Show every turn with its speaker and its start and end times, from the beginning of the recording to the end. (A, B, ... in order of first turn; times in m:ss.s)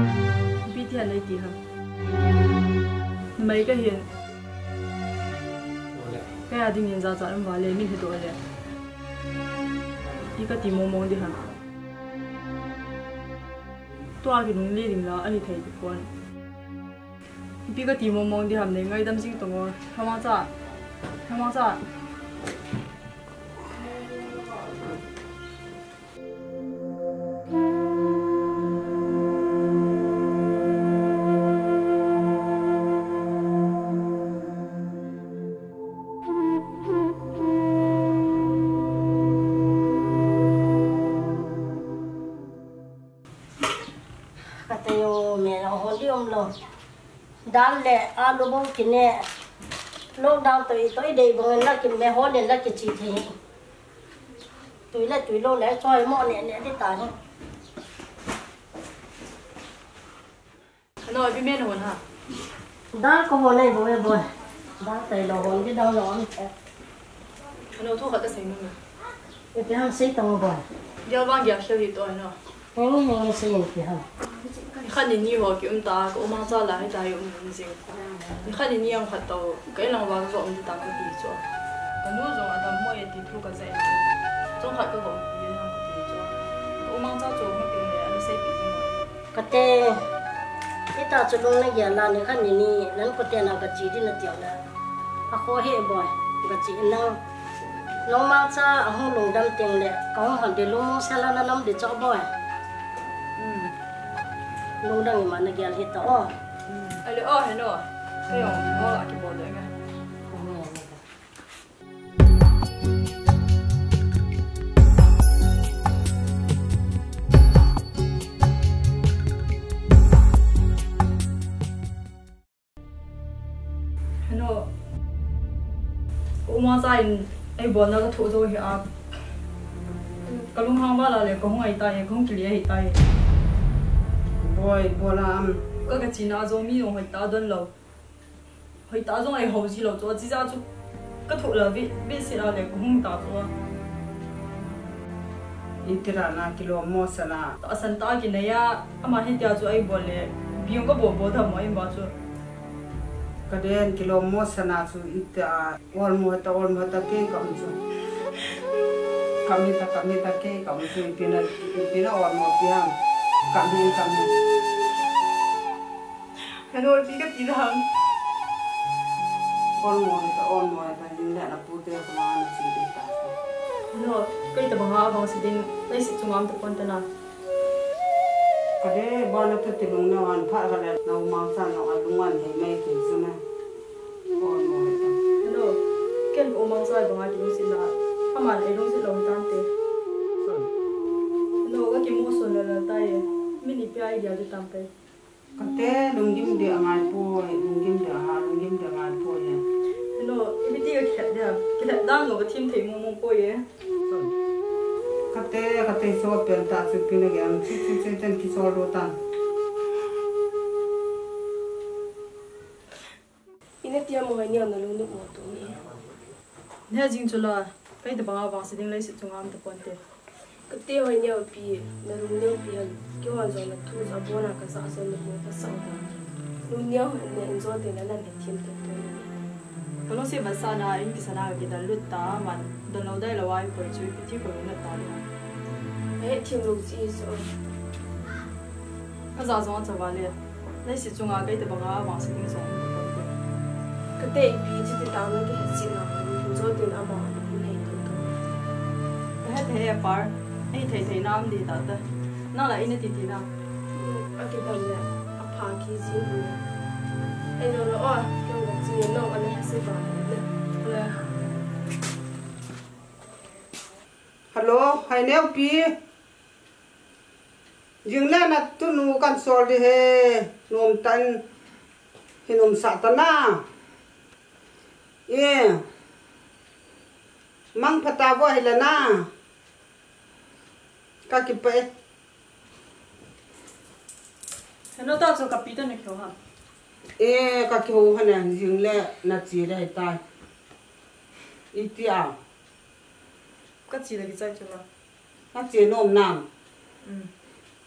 0:00.6-0:01.6 A
0:03.4-0:04.0 A
0:06.5-0:08.4 A
0:10.3-0:11.4 A
0:14.2-0:16.1 A
0:17.7-0:20.5 A
0:21.3-0:21.8 A
0:44.6-0:46.5 B
0:47.5-0:49.3 B
0:50.2-0:53.3 B
0:54.9-0:57.1 B
1:01.0-1:02.0 A
1:02.9-1:04.2 B
1:04.8-1:06.5 B
1:07.7-1:08.8 A
1:09.5-1:10.6 B
1:11.0-1:12.4 A
1:12.7-1:14.0 B
1:14.8-1:17.9 A
1:18.4-1:21.4 A
1:22.0-1:24.0 A
1:24.6-1:28.9 A
1:29.3-1:30.0 B
1:30.9-1:34.6 B
1:35.3-1:37.2 B
1:38.0-1:42.3 B
1:43.4-1:43.7 A
1:44.8-1:46.3 B
1:47.0-1:49.7 A
1:50.3-1:51.0 B
2:04.3-2:04.7 A
2:06.4-2:08.9 A
2:10.2-2:13.0 A
2:14.4-2:15.6 C
2:15.9-2:17.7 A
2:18.9-2:20.6 A
2:21.3-2:23.5 A
2:25.8-2:27.5 C
2:27.6-2:32.1 A
2:33.5-2:37.8 C
2:39.4-2:42.9 C
2:43.5-2:44.3 C
2:46.8-2:47.6 A
2:49.8-2:53.3 C
2:53.9-2:57.0 A
2:58.8-3:03.4 C
3:04.4-3:05.2 C
3:05.4-3:05.8 A
3:06.3-3:09.7 A
3:11.6-3:14.9 A
3:15.6-3:19.6 C
3:20.2-3:23.6 A
3:25.3-3:29.2 C
3:33.8-3:35.8 D
3:36.9-3:40.0 A
3:40.7-3:46.1 D
3:46.7-3:49.3 D
3:50.1-3:55.2 A
3:56.2-3:57.5 D
3:59.3-4:03.3 A
4:04.2-4:08.6 D
4:09.4-4:13.5 A
4:13.9-4:16.6 D
4:17.6-4:20.5 D
4:20.8-4:21.2 A
4:24.5-4:25.9 C
4:28.0-4:31.4 C
4:32.5-4:33.6 C
4:35.3-4:35.8 C
4:37.8-4:39.3 C
4:41.3-4:41.9 C
4:45.0-4:46.3 A
4:47.2-4:50.2 C
4:51.7-4:52.3 C
4:53.9-4:54.8 A
4:55.5-4:56.4 C
4:57.0-4:57.3 A